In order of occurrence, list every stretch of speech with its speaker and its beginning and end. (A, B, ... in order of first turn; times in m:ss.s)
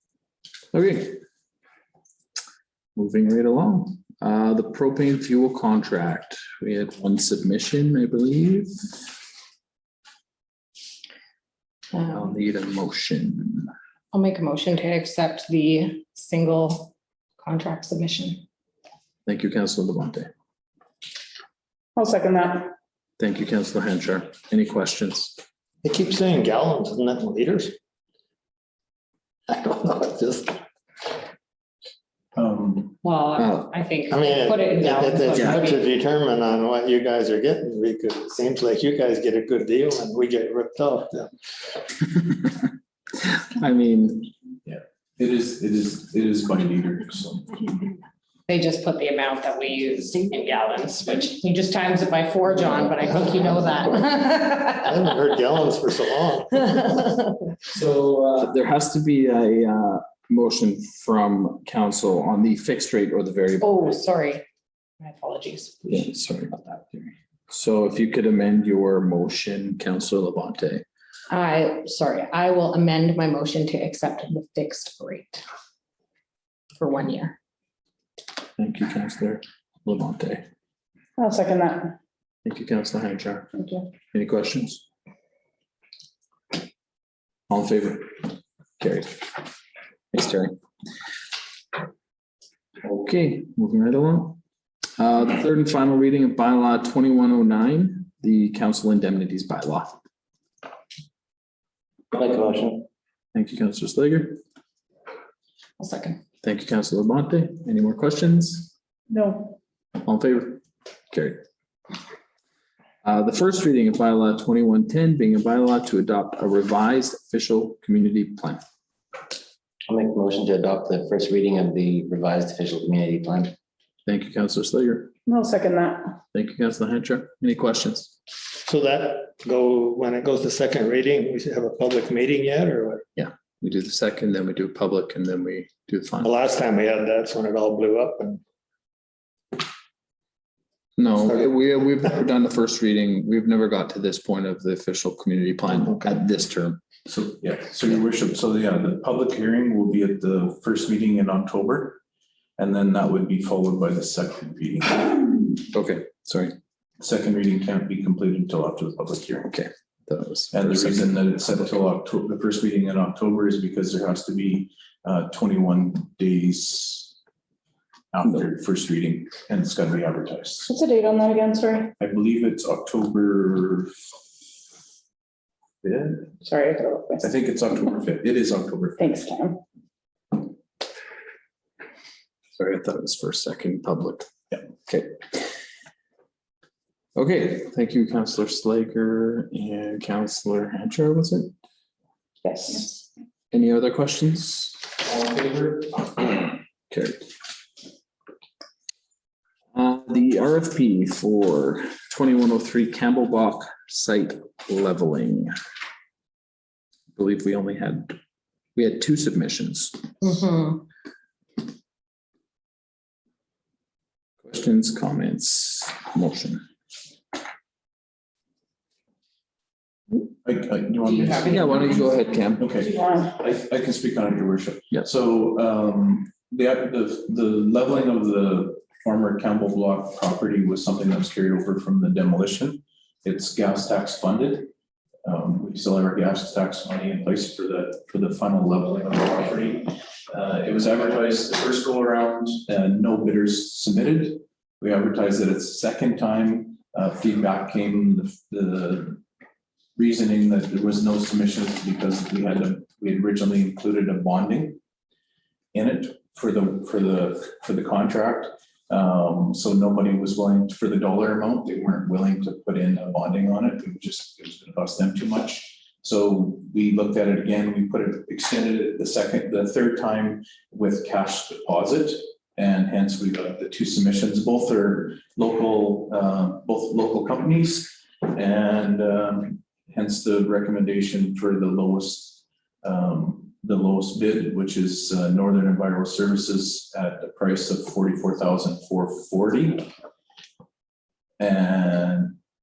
0:00.7-0:01.2 A
0:02.9-0:08.7 A
0:11.9-0:12.3 B
0:12.1-0:13.7 A
0:14.1-0:18.4 B
0:19.2-0:20.3 A
0:22.0-0:22.7 C
0:23.2-0:25.4 A
0:25.8-0:27.7 D
0:29.5-0:30.6 D
0:32.3-0:33.0 E
0:33.0-0:35.8 B
0:33.4-0:33.7 A
0:34.1-0:41.3 D
0:43.4-0:44.3 A
0:44.6-0:47.7 E
0:48.5-0:55.1 B
0:53.1-0:53.9 D
0:54.8-0:56.9 D
0:57.7-1:04.0 A
1:03.6-1:04.4 B
1:05.0-1:06.1 B
1:05.9-1:10.8 A
1:11.3-1:15.4 B
1:16.8-1:17.4 B
1:18.6-1:20.4 A
1:21.2-1:22.0 C
1:22.4-1:23.5 A
1:23.5-1:23.8 C
1:24.1-1:24.8 A
1:27.5-1:29.3 A
1:30.1-1:30.5 A
1:32.8-1:34.4 A
1:35.0-1:40.0 A
1:42.1-1:42.9 F
1:43.3-1:44.4 A
1:45.8-1:46.2 B
1:46.4-1:48.7 A
1:49.1-1:49.6 C
1:50.0-1:51.4 A
1:53.0-1:58.6 A
1:59.9-2:03.5 F
2:04.0-2:05.1 A
2:05.2-2:06.2 C
2:06.3-2:08.1 A
2:08.6-2:13.0 D
2:13.2-2:16.3 A
2:16.2-2:18.4 D
2:21.0-2:26.8 A
2:27.1-2:32.0 E
2:32.6-2:35.3 E
2:35.7-2:36.5 A
2:37.0-2:39.5 E
2:39.5-2:41.8 A
2:40.5-2:47.1 E
2:48.1-2:50.7 E
2:50.6-2:51.9 C
2:52.0-2:53.9 E
2:55.8-2:56.4 E
2:56.4-2:57.3 C
2:57.2-2:59.2 E
2:59.0-2:59.6 C
3:02.6-3:04.3 A
3:04.8-3:05.1 A
3:07.1-3:11.5 A
3:12.4-3:12.9 C
3:13.5-3:17.3 A
3:19.7-3:25.5 A
3:27.1-3:28.2 A
3:28.8-3:30.1 A
3:30.2-3:30.8 B
3:34.4-3:36.6 A
3:40.4-3:42.0 E
3:41.0-3:42.1 B
3:41.4-3:42.7 A
3:42.6-3:54.7 E
3:55.2-4:09.2 E
4:10.0-4:14.8 E
4:15.7-4:49.9 E
4:51.4-4:52.4 E